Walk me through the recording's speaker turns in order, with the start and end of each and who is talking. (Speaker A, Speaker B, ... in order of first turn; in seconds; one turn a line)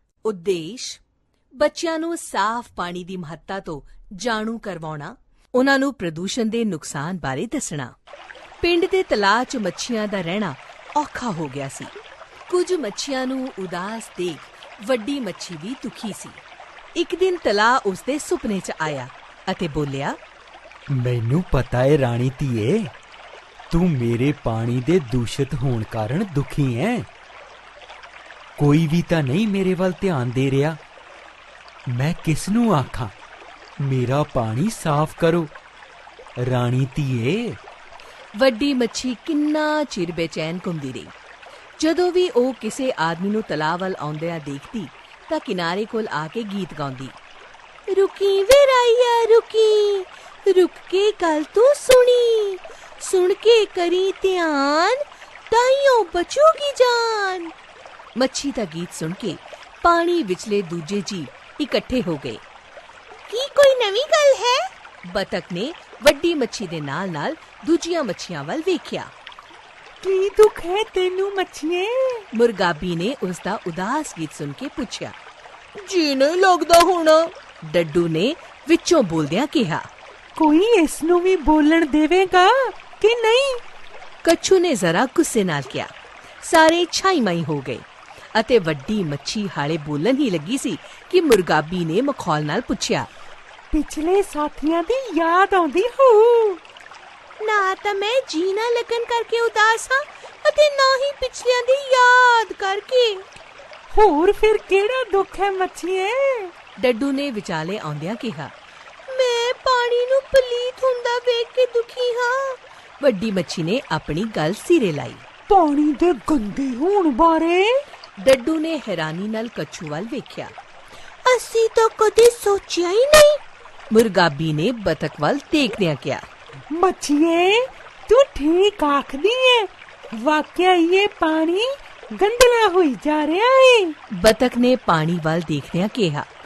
Speaker A: 0.3-1.0
Speaker A: 1.6-7.9
Speaker A: 8.6-11.9
Speaker A: 12.5-16.4
Speaker A: 17.0-20.2
Speaker B: 20.9-22.9
Speaker B: 23.7-27.1
Speaker B: 28.6-30.8
Speaker B: 31.9-33.1
Speaker B: 33.8-35.5
Speaker B: 36.5-37.6
Speaker A: 38.4-41.1
Speaker A: 41.8-47.1
Speaker A: 47.9-57.5
Speaker A: 58.2-62.4
Speaker A: 63.3-69.1
Speaker C: 70.0-72.2
Speaker A: 72.3-75.1
Speaker A: 75.8-79.8
Speaker C: 80.4-83.6
Speaker A: 84.2-85.9
Speaker A: 86.4-87.8
Speaker A: 88.3-93.1
Speaker C: 93.7-96.6
Speaker A: 97.4-103.2
Speaker C: 103.9-106.5
Speaker A: 106.8-108.5
Speaker A: 109.1-115.2
Speaker C: 115.5-117.8
Speaker A: 118.2-120.5
Speaker A: 121.3-123.4
Speaker A: 123.9-126.2
Speaker C: 126.8-133.9
Speaker A: 134.1-136.3